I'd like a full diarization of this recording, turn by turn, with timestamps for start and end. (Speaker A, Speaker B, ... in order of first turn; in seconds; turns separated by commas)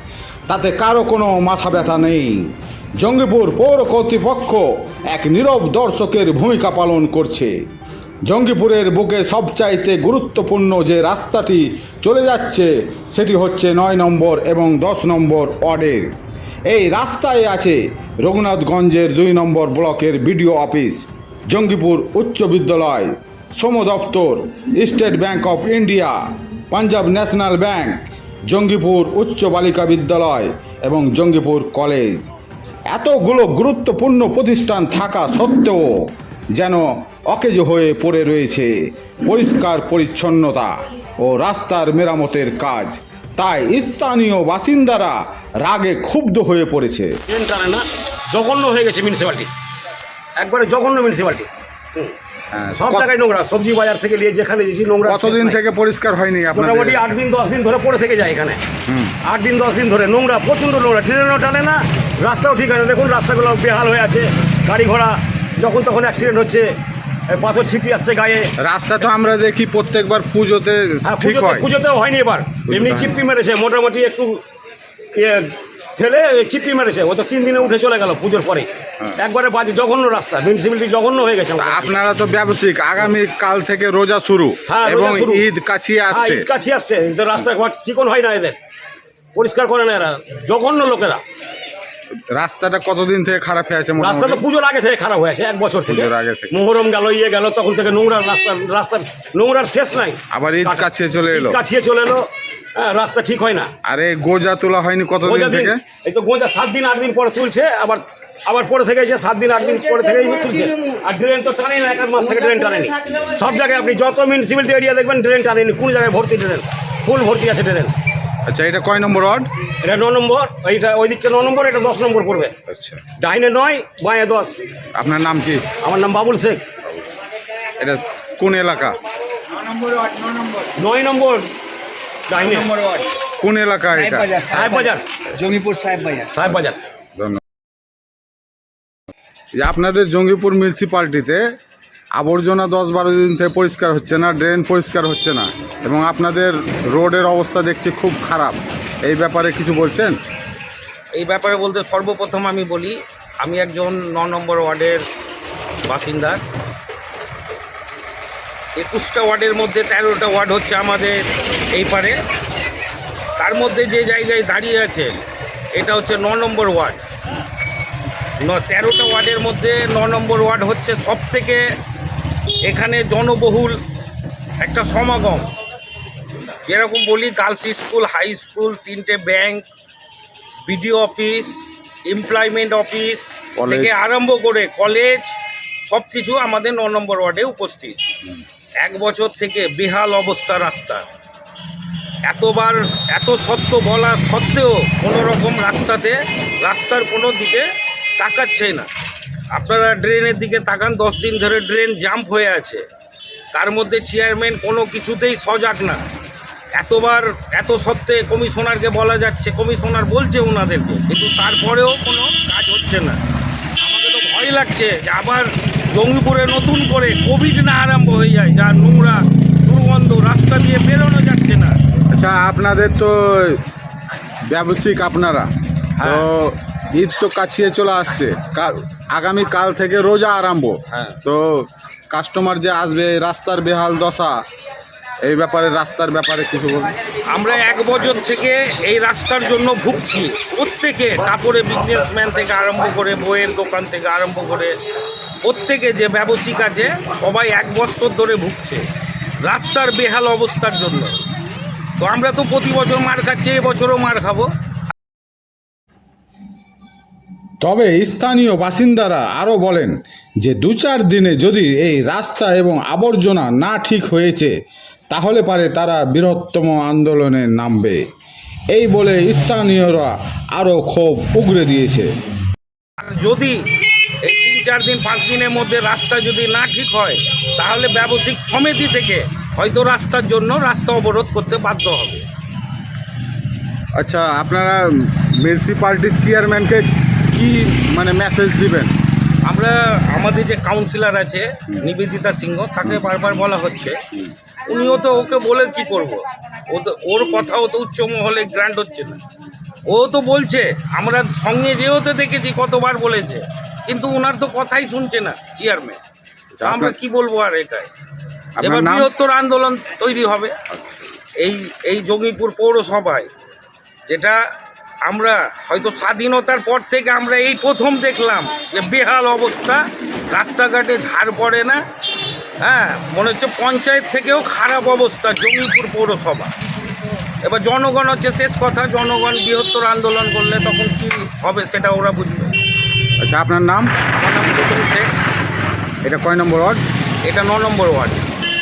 Speaker A: 0.5-7.5, Speaker A: 8.2-16.1, Speaker A: 16.6-26.2, Speaker A: 26.7-32.3, Speaker A: 32.9-47.2, Speaker B: 47.3-49.5, Speaker B: 50.4-52.1, Speaker A: 52.5-53.1, Speaker B: 52.8-55.6, Speaker A: 55.0-57.1, Speaker B: 56.5-58.6, Speaker A: 58.9-59.2, Speaker B: 59.2-66.7, Speaker B: 67.3-68.5, Speaker A: 68.6-71.7, Speaker B: 71.0-74.4, Speaker A: 72.7-73.2, Speaker B: 75.1-81.9, Speaker A: 81.6-86.4, Speaker B: 84.7-85.5, Speaker B: 86.1-88.6, Speaker B: 89.3-91.2, Speaker A: 92.3-94.4, Speaker B: 94.0-103.7, Speaker A: 95.9-96.5, Speaker A: 100.3-101.6, Speaker A: 103.8-105.8, Speaker B: 105.2-117.9, Speaker A: 118.5-119.5, Speaker B: 119.8-122.5, Speaker A: 122.7-123.0, Speaker B: 123.2-124.6, Speaker A: 124.9-125.7, Speaker B: 125.8-126.6, Speaker A: 127.8-129.0, Speaker C: 129.6-130.7, Speaker B: 130.8-131.5, Speaker B: 132.3-132.9, Speaker A: 133.4-134.4, Speaker C: 134.0-134.8, Speaker B: 134.4-135.1, Speaker C: 135.3-136.3, Speaker B: 136.2-136.8, Speaker A: 139.5-141.4, Speaker A: 142.2-150.2, Speaker D: 151.1-155.0, Speaker D: 155.8-156.4, Speaker D: 158.8-162.2, Speaker D: 163.3-165.2, Speaker D: 165.7-167.1, Speaker D: 168.4-171.6, Speaker D: 172.6-173.8, Speaker D: 174.6-175.5, Speaker D: 176.6-179.7, Speaker D: 180.7-188.0, Speaker A: 183.6-183.9, Speaker D: 188.8-191.0, Speaker D: 192.2-198.9, Speaker D: 199.5-202.8, Speaker D: 203.5-206.0, Speaker D: 206.7-213.2, Speaker D: 213.8-221.8, Speaker A: 222.1-223.6, Speaker A: 224.5-225.5, Speaker D: 225.9-226.2, Speaker A: 226.0-234.4, Speaker D: 230.9-231.2, Speaker A: 235.2-236.9, Speaker D: 237.3-244.8, Speaker D: 245.4-248.8, Speaker D: 249.4-251.1, Speaker D: 252.0-254.5, Speaker A: 257.6-264.5, Speaker A: 265.1-268.0, Speaker A: 268.7-272.1, Speaker D: 273.0-273.6, Speaker D: 274.2-282.2, Speaker A: 283.9-288.9, Speaker D: 289.4-294.0, Speaker D: 294.6-299.2, Speaker D: 299.9-306.0, Speaker A: 306.6-306.9, Speaker D: 306.6-307.9, Speaker A: 308.6-309.1, Speaker D: 308.6-310.6, Speaker A: 310.7-311.0, Speaker D: 311.4-313.3, Speaker D: 314.1-314.4, Speaker D: 315.0-321.8, Speaker D: 322.6-326.5, Speaker D: 327.4-332.5, Speaker A: 333.2-333.9, Speaker D: 334.1-335.2, Speaker A: 336.0-336.8, Speaker D: 337.2-338.2